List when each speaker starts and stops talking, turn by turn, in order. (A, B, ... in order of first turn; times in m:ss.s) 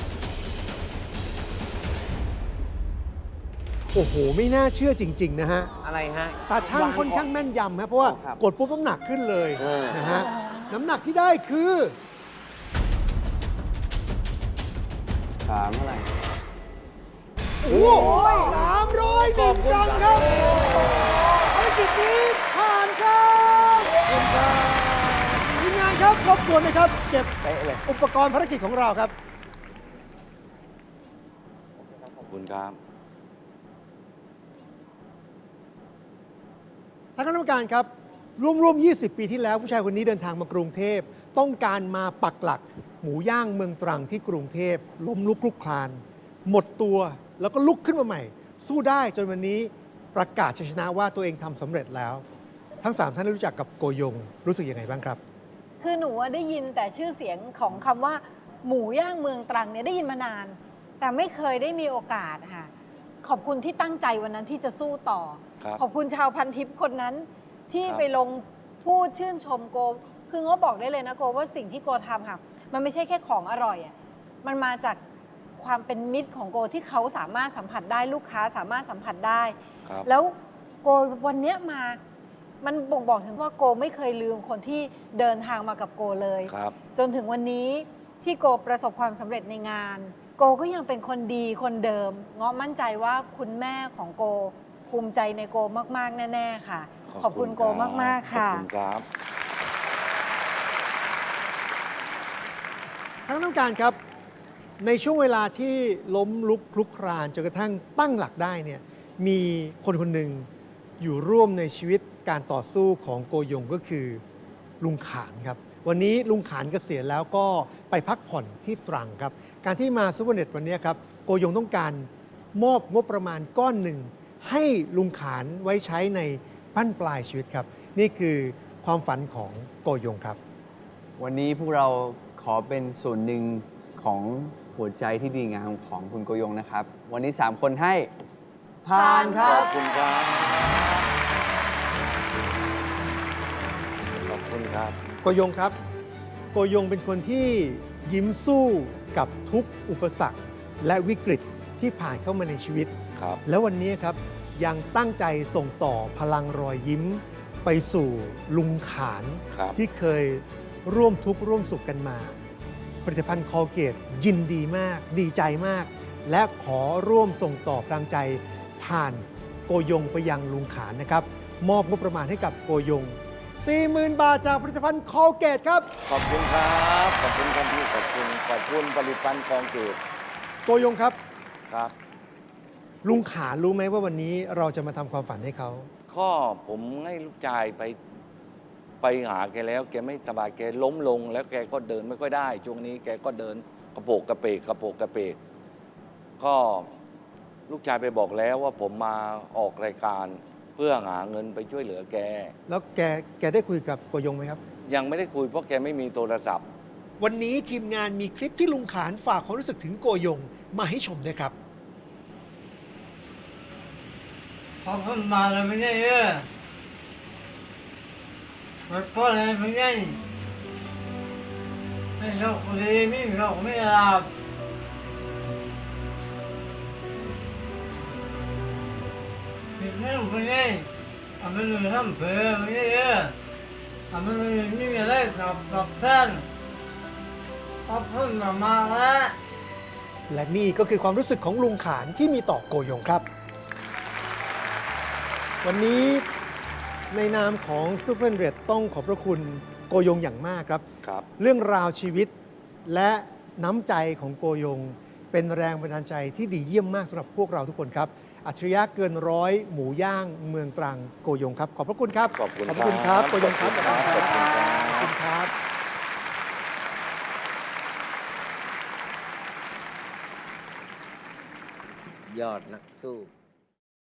0:03.9-0:05.7 A
0:05.8-0:07.3 B
0:06.5-0:12.0 A
0:08.0-0:08.4 B
0:09.6-0:10.2 B
0:10.0-0:10.8 C
0:15.4-0:16.1 D
0:17.6-0:20.7 A
0:17.7-0:21.2 E
0:17.9-0:18.6 C
0:20.4-0:21.5 C
0:21.5-0:24.0 A
0:24.0-0:25.4 E
0:25.5-0:27.4 A
0:27.4-0:27.8 E
0:27.9-0:29.1 A
0:32.0-0:32.8 E
0:37.2-0:52.2 A
0:52.8-0:55.2 A
0:55.8-1:02.7 C
1:03.2-1:15.0 C
1:15.6-1:22.0 C
1:22.6-1:38.7 C
1:26.5-1:26.8 E
1:37.1-1:39.1 E
1:43.3-1:44.0 A
1:44.8-1:50.5 A
1:51.0-1:54.2 A
1:54.8-2:10.4 A
2:11.2-2:18.1 D
2:18.8-2:19.7 D
2:18.9-2:19.9 C
2:19.3-2:21.1 E
2:24.2-2:25.0 E
2:25.2-2:25.8 A
2:26.5-2:32.9 A
2:33.2-2:33.4 E
2:33.5-2:42.4 A
2:43.0-2:55.9 A
2:56.1-3:00.0 E
3:00.7-3:01.2 A
3:03.0-3:05.9 A
3:06.1-3:08.0 E
3:09.0-3:15.4 E
3:16.4-3:16.9 E
3:17.7-3:22.6 E
3:22.7-3:24.6 A
3:24.9-3:26.6 E
3:27.2-3:31.5 A
3:34.8-3:36.5 F
3:38.9-3:40.2 F
3:42.2-3:44.3 F
3:49.8-3:50.9 F
3:51.4-3:53.4 F
3:54.1-3:56.4 F
3:57.9-3:59.4 F
4:00.3-4:03.2 A
4:05.6-4:06.3 A
4:07.1-4:10.8 A
4:11.4-4:12.3 A
4:12.8-4:25.5 A
4:22.3-4:25.1 E
4:23.9-4:24.6 C
4:32.2-4:33.3 B